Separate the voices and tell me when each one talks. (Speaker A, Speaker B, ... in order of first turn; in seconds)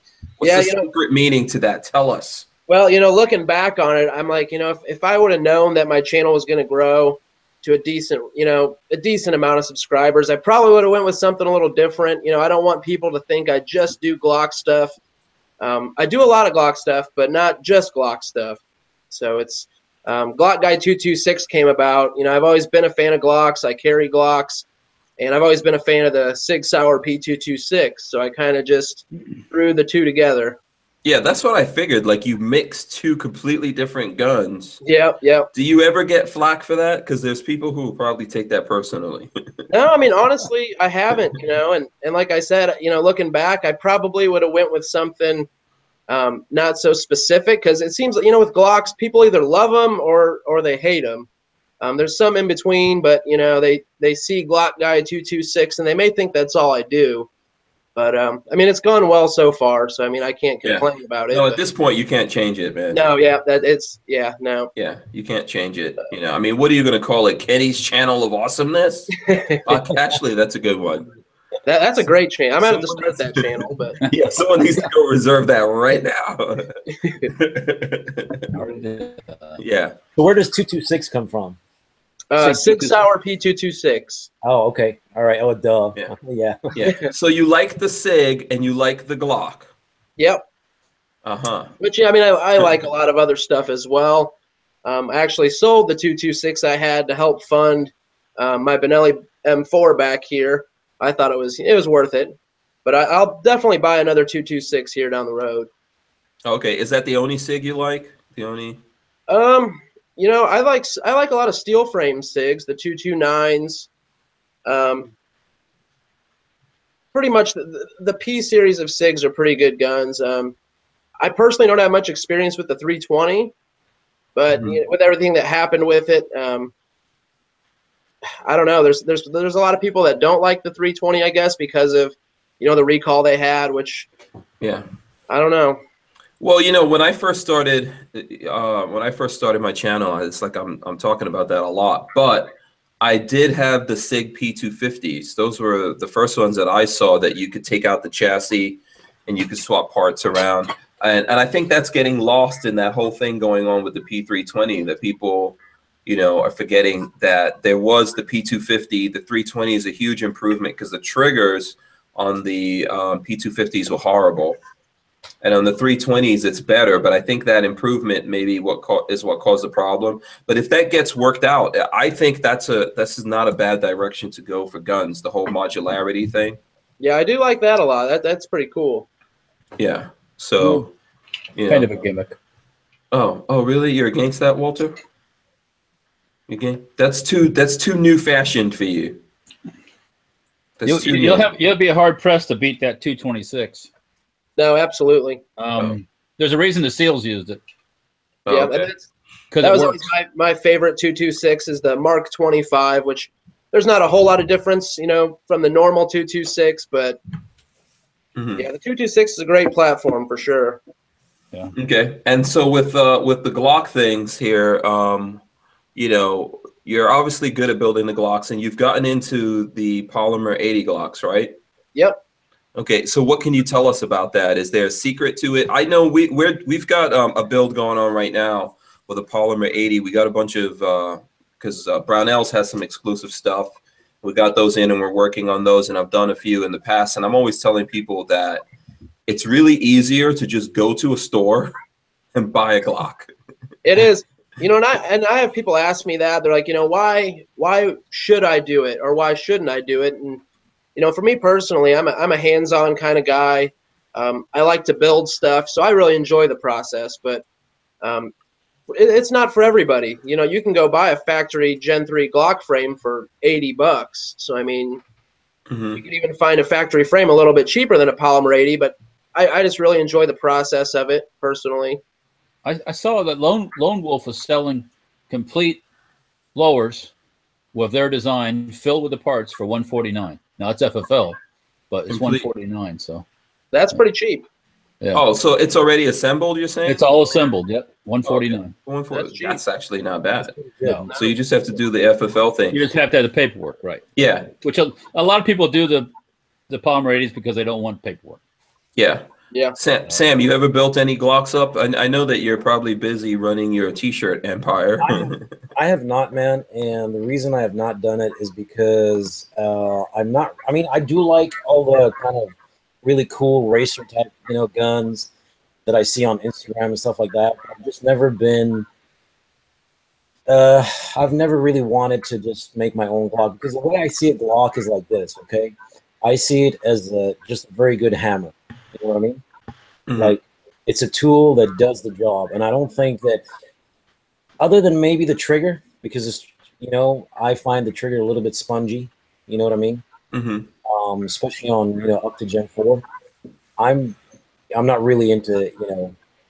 Speaker A: 0.4-2.5, 31.0-34.8, 35.5-39.3, 60.6-63.0, 64.8-69.1, 69.7-71.1, 72.6-73.5, 74.1-78.5, 79.6-80.0, 86.7-89.7, 91.2-91.7, 106.5-108.8, 124.5-124.8, 134.6-134.9, 136.4-164.6, 165.4-176.6, 179.8-180.9, 181.6-182.0, 183.1-185.0, 186.5-189.2, 190.8-191.5, 198.5-198.9, 208.3-208.7, 211.8-215.4, 215.9-221.6, 222.8-238.6, 239.3-241.7, 242.3-243.3, 265.7-266.0, 282.1-282.5, 285.1-287.0, 288.2-290.6, 291.1-292.8, 294.2-294.5, 299.0-305.6, 330.1-330.4, 340.3-340.7
Speaker B: 0.4-0.9, 2.7-14.9, 15.6-18.6, 19.1-24.6, 25.2-30.6, 34.8-35.5, 39.7-45.5, 46.1-51.3, 51.8-57.3, 58.0-61.6, 62.9-64.7, 69.2-69.6, 71.7-74.0, 82.3-84.3, 90.2-90.4, 91.8-94.3, 94.8-105.7, 109.3-113.9, 114.7-115.1, 117.1-120.5, 121.2-123.5, 124.4-126.7, 128.3-134.1, 135.3-135.8, 177.0-179.1, 194.6-195.4, 198.5-199.1, 199.6-207.2, 208.6-210.8, 243.8-250.4, 251.0-257.4, 258.0-258.3, 258.9-265.0, 266.0-272.0, 283.7-284.4, 289.1-289.6, 291.1-291.4
Speaker C: 78.5-79.6, 82.4-83.0, 180.6-180.9, 181.7-182.4, 190.9-193.9, 195.6-197.6, 199.5-200.1, 272.6-275.8, 276.6-277.1, 277.7-281.4, 281.9-283.2, 286.9-288.7, 290.8-291.1, 292.7-296.1, 296.7-298.4
Speaker D: 80.2-81.6, 84.4-86.7, 290.4-291.1, 305.0-315.3, 315.9-318.9, 320.5-329.4, 330.2-333.4, 334.6-340.0, 340.9-343.0, 343.8-344.2, 344.7-346.2